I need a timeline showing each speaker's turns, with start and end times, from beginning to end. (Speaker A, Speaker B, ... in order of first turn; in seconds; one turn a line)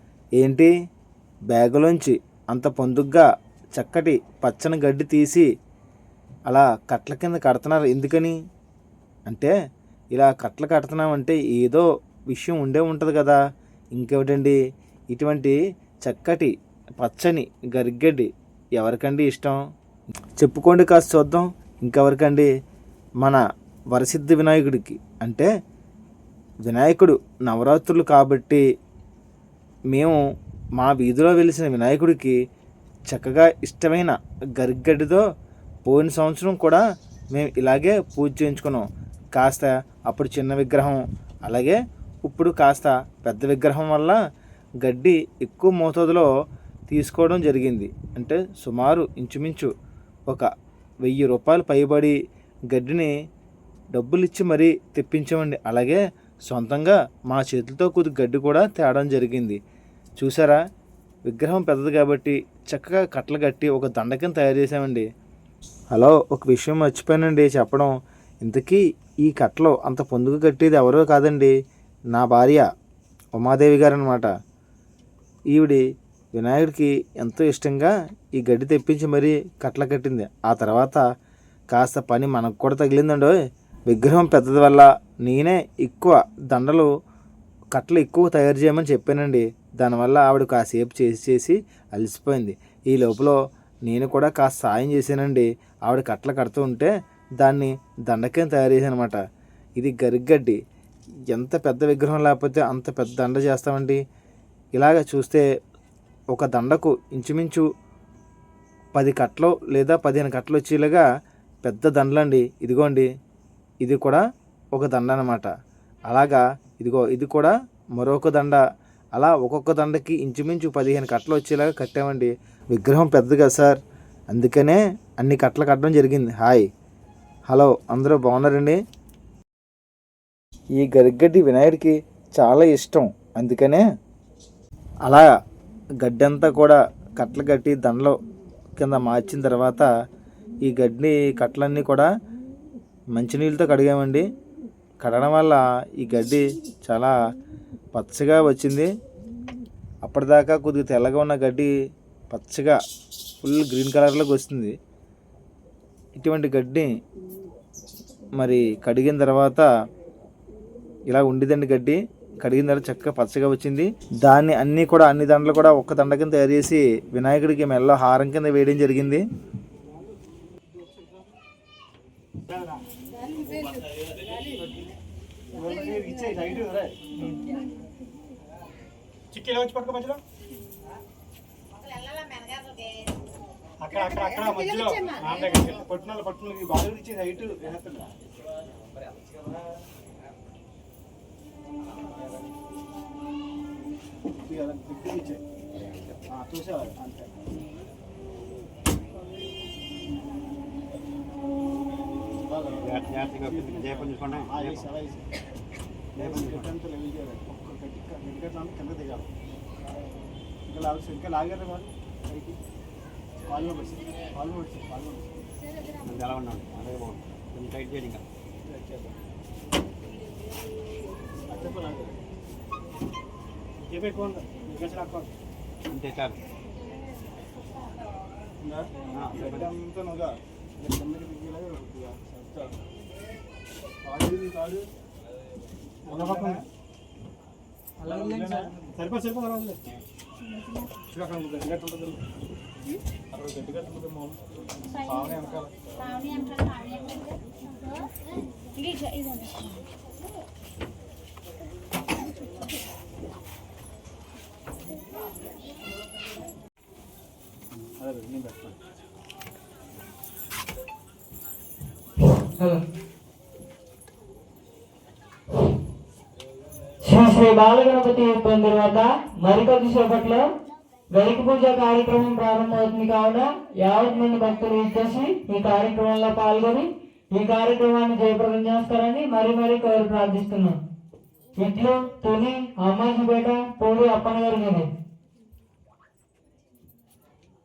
Speaker A: 0.4-0.7
Speaker A: 1.5-3.2
Speaker A: 3.8-5.5
Speaker A: 6.5-8.3
Speaker A: 9.3-9.5
Speaker A: 10.1-13.4
Speaker A: 13.9-14.6
Speaker A: 15.1-19.6
Speaker A: 20.4-22.5
Speaker A: 23.9-25.5
Speaker A: 26.6-28.6
Speaker A: 29.9-30.2
Speaker A: 30.8-32.3
Speaker A: 33.1-35.2
Speaker A: 35.9-36.8
Speaker A: 37.3-38.8
Speaker A: 39.4-44.2
Speaker A: 44.8-46.3
Speaker A: 46.9-49.7
Speaker A: 51.0-52.1
Speaker A: 52.7-53.1
Speaker A: 53.9-59.6
Speaker A: 60.2-60.6
Speaker A: 61.3-65.0
Speaker A: 65.9-67.9
Speaker A: 68.4-71.5
Speaker A: 72.1-72.7
Speaker A: 73.4-74.3
Speaker A: 75.5-75.8
Speaker A: 76.3-81.0
Speaker A: 81.7-83.4
Speaker A: 83.9-86.9
Speaker A: 87.7-99.2
Speaker A: 99.8-100.6
Speaker A: 101.3-104.0
Speaker A: 104.8-105.5
Speaker A: 106.3-107.6
Speaker A: 109.0-111.0
Speaker A: 111.6-113.1
Speaker A: 113.8-114.2
Speaker A: 114.7-115.5
Speaker A: 116.1-118.6
Speaker A: 119.2-123.8
Speaker A: 124.3-126.7
Speaker A: 127.5-128.8
Speaker A: 130.8-133.8
Speaker A: 136.0-138.2
Speaker A: 138.8-139.9
Speaker A: 140.6-142.1
Speaker A: 143.2-144.2
Speaker A: 145.0-147.1
Speaker A: 147.9-148.9
Speaker A: 150.1-151.7
Speaker A: 152.3-152.8
Speaker A: 153.4-154.7
Speaker A: 156.2-156.9
Speaker A: 158.4-159.7
Speaker A: 161.1-169.2
Speaker B: 175.6-176.9
Speaker B: 179.3-180.2
Speaker B: 183.8-188.1
Speaker B: 194.5-195.4
Speaker B: 196.3-197.3
Speaker B: 202.4-205.2
Speaker C: 202.8-205.0
Speaker C: 206.2-206.7
Speaker B: 206.2-209.3
Speaker B: 210.7-212.6
Speaker B: 213.5-215.3
Speaker C: 216.1-218.2
Speaker B: 218.7-219.1
Speaker B: 221.5-222.2
Speaker B: 223.8-225.3
Speaker C: 225.9-226.4
Speaker B: 228.6-232.8
Speaker C: 229.1-229.7
Speaker B: 234.1-234.9
Speaker B: 236.1-236.6
Speaker B: 238.0-239.8
Speaker B: 241.1-242.2
Speaker B: 243.3-244.3
Speaker B: 245.1-245.7
Speaker B: 258.0-258.7
Speaker D: 267.0-270.5
Speaker D: 271.1-280.8
Speaker D: 281.6-284.9